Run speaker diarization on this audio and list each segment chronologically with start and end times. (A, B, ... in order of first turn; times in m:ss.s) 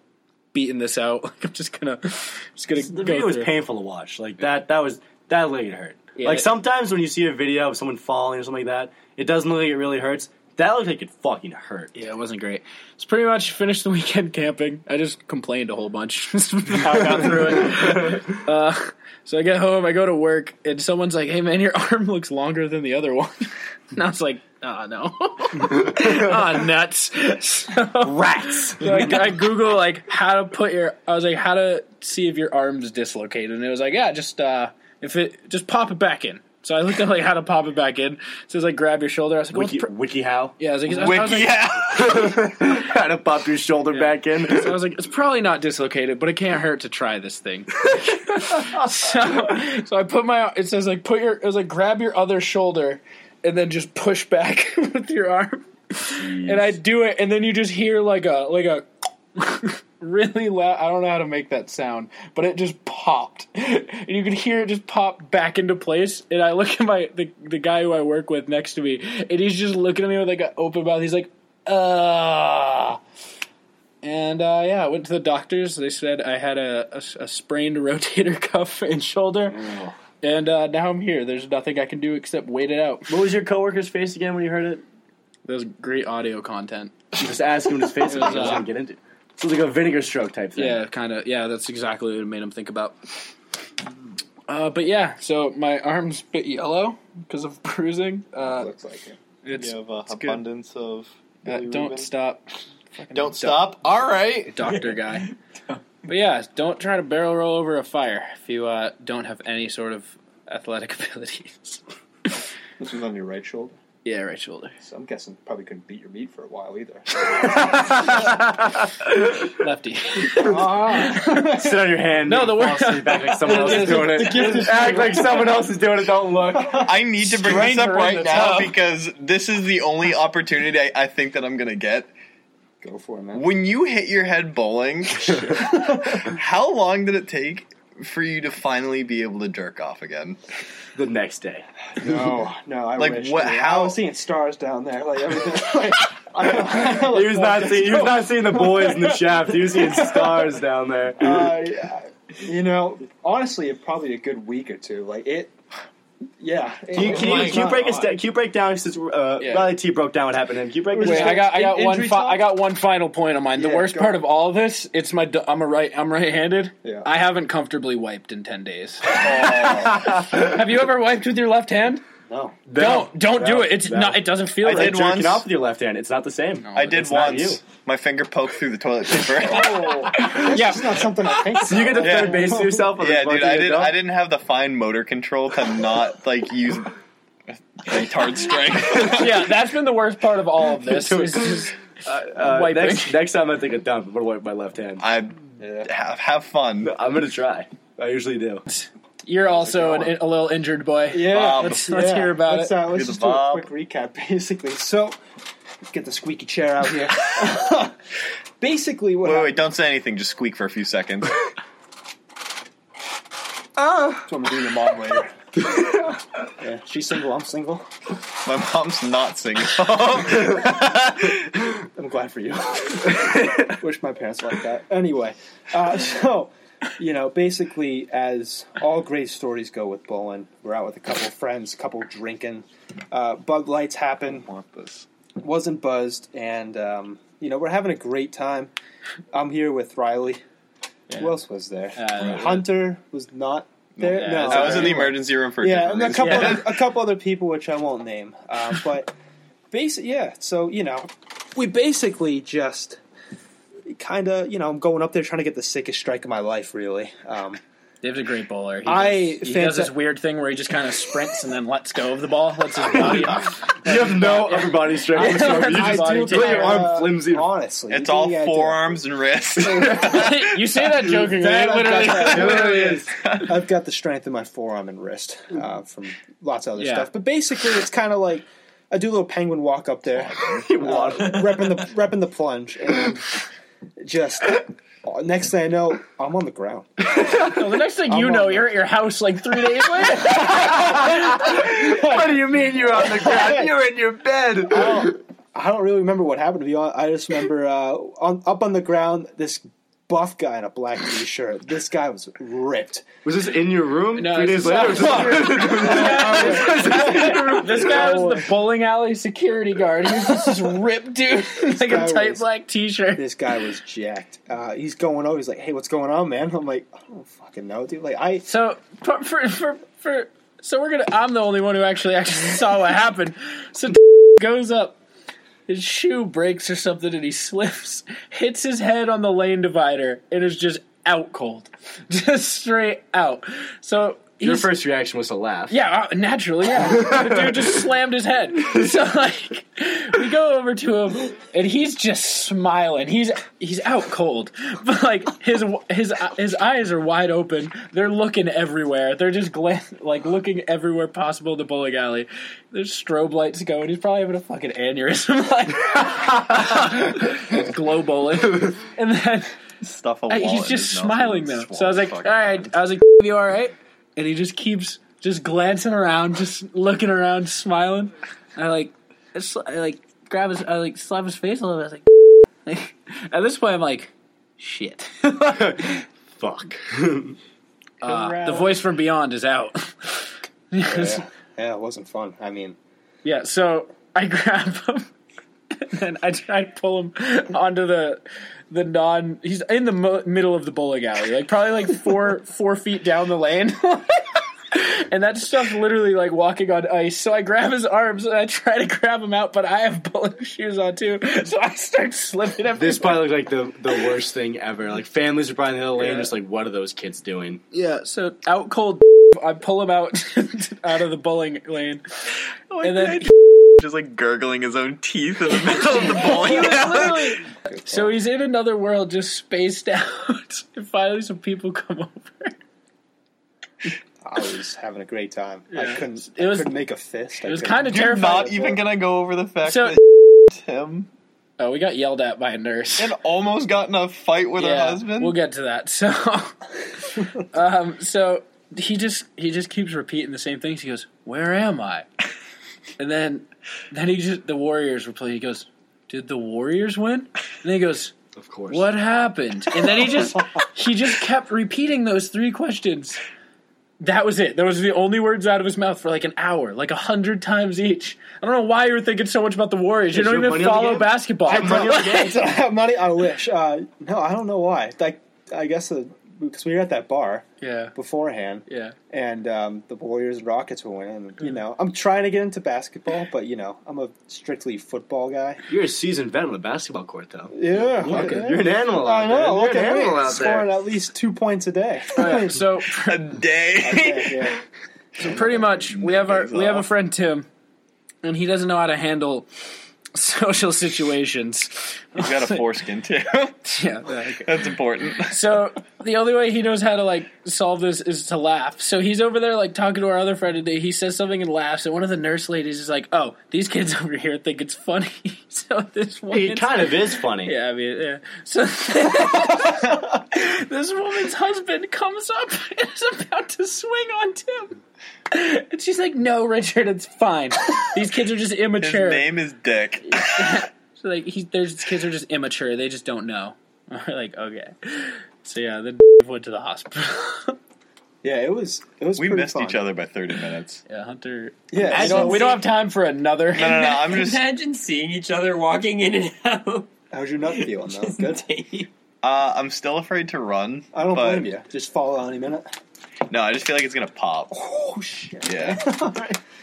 0:00.5-0:03.5 A
0:02.8-0:11.9 B
0:06.2-0:06.5 A
0:11.9-0:39.9 A
0:16.9-0:18.3 B
0:28.0-0:29.3 B
0:39.5-0:40.6 B
0:40.6-0:41.7 A
0:40.9-0:42.4 C
0:41.8-0:44.8 B
0:43.9-1:13.0 A
0:56.2-0:56.7 B
1:14.0-1:19.6 A
1:19.5-1:19.9 B
1:20.2-1:23.1 A
1:23.1-1:24.8 B
1:25.4-1:27.2 A
1:27.2-1:30.8 B
1:28.0-1:28.6 A
1:30.6-1:33.1 A
1:34.5-1:38.7 A
1:38.4-1:39.2 D
1:39.4-1:40.4 A
1:39.6-1:42.1 C
1:41.4-1:42.4 A
1:42.9-1:43.7 A
1:43.1-1:44.6 C
1:44.5-1:45.3 A
1:44.6-1:45.8 E
1:46.1-1:51.8 A
1:52.8-1:53.7 D
1:54.0-1:54.8 A
1:54.8-1:58.0 D
1:57.7-1:58.5 B
1:59.1-2:01.6 A
2:00.4-2:02.0 D
2:01.4-2:06.8 B
2:02.2-2:05.2 A
2:03.4-2:05.7 D
2:06.5-2:06.9 D
2:06.8-2:12.1 C
2:07.2-2:08.7 A
2:12.8-2:13.5 D
2:13.3-2:20.4 C
2:15.4-2:16.2 D
2:20.9-2:21.6 B
2:22.0-2:30.4 D
2:23.0-2:24.0 C
2:26.4-2:31.6 B
2:31.2-2:35.5 D
2:36.4-2:38.1 D
2:36.9-2:41.5 B
2:36.9-2:38.1 E
2:39.4-2:39.7 A
2:40.9-2:42.5 D
2:41.0-2:52.0 A
2:43.6-2:44.2 D
2:49.1-2:50.1 C
2:52.3-2:52.6 D
2:52.7-2:57.6 B
2:52.7-2:55.0 A
2:54.6-2:55.4 C
2:56.7-3:00.2 C
2:59.4-3:02.9 D
2:59.5-3:01.9 A
3:01.6-3:04.0 B
3:02.0-3:06.9 C
3:07.8-3:09.5 C
3:09.0-3:11.8 A
3:10.8-3:15.0 B
3:12.3-3:13.2 A
3:15.0-3:16.9 C
3:15.6-3:15.9 D
3:16.8-3:18.6 B
3:18.7-3:22.8 A
3:19.6-3:20.1 D
3:21.1-3:25.2 D
3:21.3-3:22.0 C
3:22.8-3:23.7 C
3:25.9-3:28.0 D
3:28.6-3:29.6 D
3:29.2-3:31.4 C
3:33.8-3:34.3 B
3:34.3-3:35.3 D
3:35.7-3:36.0 B
3:36.6-3:37.9 D
3:38.4-3:41.4 C
3:41.8-3:54.5 D
3:54.3-3:55.1 C
3:55.4-3:58.7 D
3:59.3-4:00.4 D
4:01.1-4:09.1 D
4:02.0-4:02.7 A
4:03.9-4:06.8 C
4:04.1-4:05.1 A
4:06.2-4:06.6 A
4:09.7-4:13.0 D
4:13.9-4:17.6 D
4:18.0-4:27.0 A
4:18.9-4:19.9 D
4:22.9-4:27.5 B
4:25.1-4:29.0 D
4:27.9-4:30.6 C
4:29.8-4:33.0 A
4:31.0-4:43.4 D
4:32.0-4:33.1 B
4:33.2-4:33.5 C
4:36.8-4:37.1 A
4:40.3-4:40.7 C
4:40.4-4:41.8 B
4:44.0-4:47.6 D
4:47.4-4:51.5 A
4:48.1-4:48.7 D
4:50.2-4:55.2 B
4:50.3-4:52.4 D
4:52.9-4:53.7 D
4:54.7-5:03.1 D
5:03.2-5:08.2 B
5:04.2-5:13.2 A
5:04.6-5:08.4 D
5:11.6-5:12.4 D
5:13.1-5:18.4 D
5:18.4-5:25.0 A
5:25.7-5:34.7 A
5:34.4-5:35.7 B
5:35.7-5:59.6 A
5:36.9-5:37.7 B
5:59.8-6:02.7 C
6:00.3-6:12.0 A
6:12.6-6:16.0 A
6:15.5-6:17.4 B
6:18.0-6:21.2 A
6:18.0-6:18.8 D
6:20.8-6:22.8 D
6:23.2-6:25.1 A
6:25.7-6:43.4 A
6:42.8-6:47.6 B
6:46.0-6:46.3 A
6:47.7-6:52.0 A
6:52.7-6:57.4 C
6:52.8-6:53.3 A
6:55.6-7:02.5 A
6:57.7-6:58.1 D
7:04.2-7:08.1 D
7:05.7-7:06.7 A
7:07.4-7:08.8 A
7:07.9-7:11.1 C
7:09.6-7:10.0 A
7:11.6-7:13.1 A
7:13.0-7:15.4 C
7:14.6-7:22.1 A
7:23.0-7:28.1 A
7:28.4-7:28.9 B
7:28.7-7:33.2 A
7:34.0-7:42.4 A
7:40.1-7:42.2 B
7:41.4-7:55.6 D
7:47.6-7:47.9 A
7:48.7-7:48.9 A
7:55.7-8:00.7 B
7:57.5-8:02.6 D
7:58.1-7:58.4 A
8:02.2-8:03.2 A
8:02.9-8:04.6 C
8:03.8-8:04.6 D
8:05.2-8:06.9 C
8:05.2-8:07.5 A
8:08.2-8:09.5 A
8:10.1-8:12.6 A
8:12.2-8:13.6 C
8:13.6-8:34.8 A
8:14.4-8:15.5 C
8:26.3-8:27.5 B
8:35.3-8:39.3 A
8:38.8-8:40.6 C
8:40.0-8:47.6 A
8:48.2-8:49.9 D
8:49.2-8:50.8 C
8:50.9-8:53.8 A
8:51.7-8:52.6 D
8:51.8-8:52.6 E
8:53.5-8:54.4 C
8:53.6-8:56.9 E
8:57.1-8:58.4 D
8:57.5-8:58.9 E
8:59.2-9:01.5 C
9:00.9-9:02.7 D
9:03.3-9:04.5 C
9:04.5-9:06.4 D
9:05.4-9:05.9 C